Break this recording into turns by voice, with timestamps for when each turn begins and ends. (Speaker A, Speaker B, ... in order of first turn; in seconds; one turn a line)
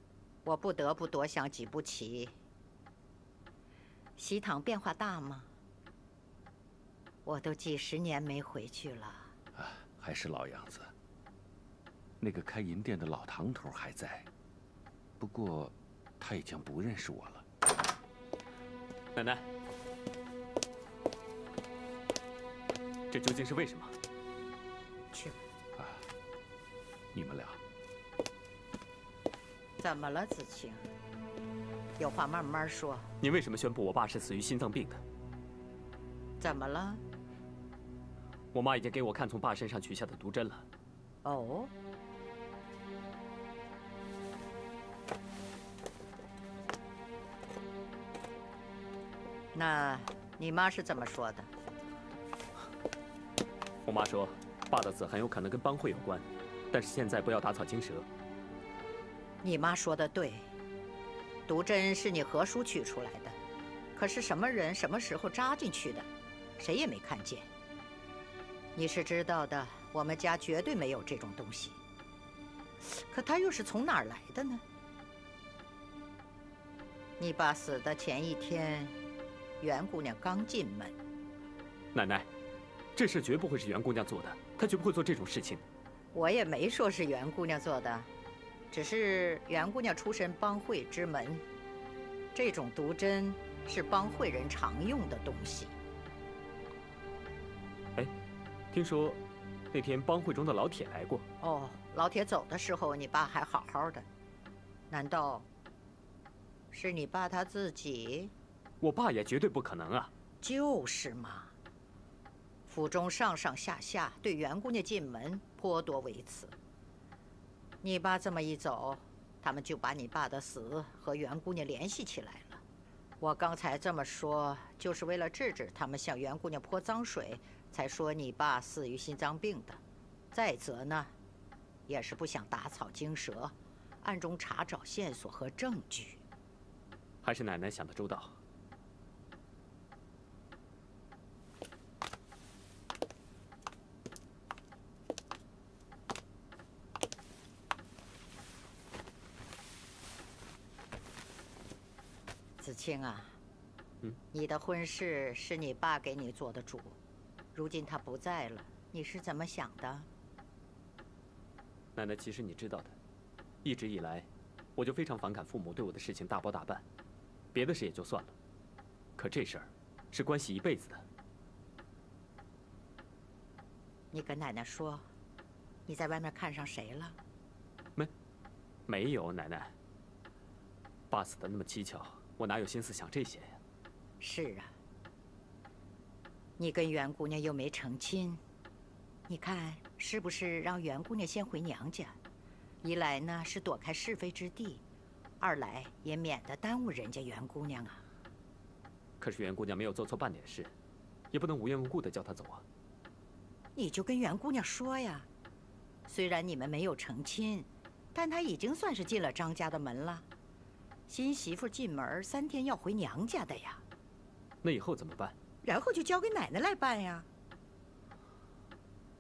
Speaker A: 0.5-2.4
Speaker A: 4.2-5.5
Speaker A: 7.2-9.3
Speaker B: 9.6-10.9
Speaker B: 12.2-14.3
Speaker B: 15.2-17.4
Speaker C: 19.1-19.4
Speaker C: 23.1-23.9
Speaker A: 25.1-25.4
Speaker B: 25.8-26.1
Speaker B: 27.1-27.6
Speaker A: 29.8-30.9
Speaker A: 32.0-33.1
Speaker C: 33.2-35.0
Speaker A: 36.4-37.0
Speaker C: 38.5-40.7
Speaker A: 41.2-41.7
Speaker A: 49.5-51.5
Speaker C: 53.9-58.1
Speaker A: 59.4-60.5
Speaker A: 61.5-63.4
Speaker A: 64.0-67.5
Speaker A: 68.8-71.8
Speaker A: 72.8-74.6
Speaker A: 77.2-79.0
Speaker A: 79.6-81.0
Speaker C: 81.9-82.3
Speaker C: 83.0-85.6
Speaker A: 86.1-88.1
Speaker A: 88.7-91.4
Speaker A: 92.3-95.8
Speaker C: 98.7-99.2
Speaker C: 99.7-101.2
Speaker A: 101.4-104.1
Speaker A: 104.9-105.5
Speaker A: 106.7-108.3
Speaker C: 108.8-110.1
Speaker A: 110.4-111.5
Speaker A: 112.7-116.5
Speaker A: 117.8-122.6
Speaker A: 123.2-129.8
Speaker A: 130.3-131.1
Speaker A: 131.9-136.2
Speaker C: 137.2-138.4
Speaker A: 152.6-153.4
Speaker A: 154.3-157.0
Speaker A: 157.6-160.1
Speaker C: 161.9-163.0
Speaker C: 163.6-166.8
Speaker C: 167.5-168.3
Speaker C: 169.2-171.0
Speaker A: 174.1-175.1
Speaker A: 175.9-177.2
Speaker C: 178.9-179.8
Speaker C: 181.1-183.6
Speaker A: 184.2-184.7
Speaker A: 186.6-188.4
Speaker A: 189.3-192.2
Speaker A: 192.8-194.8
Speaker A: 195.4-198.0
Speaker C: 199.2-200.7
Speaker C: 201.3-202.6
Speaker A: 203.8-205.3
Speaker A: 206.1-210.3
Speaker A: 211.1-213.8
Speaker C: 214.6-215.4
Speaker A: 215.6-217.3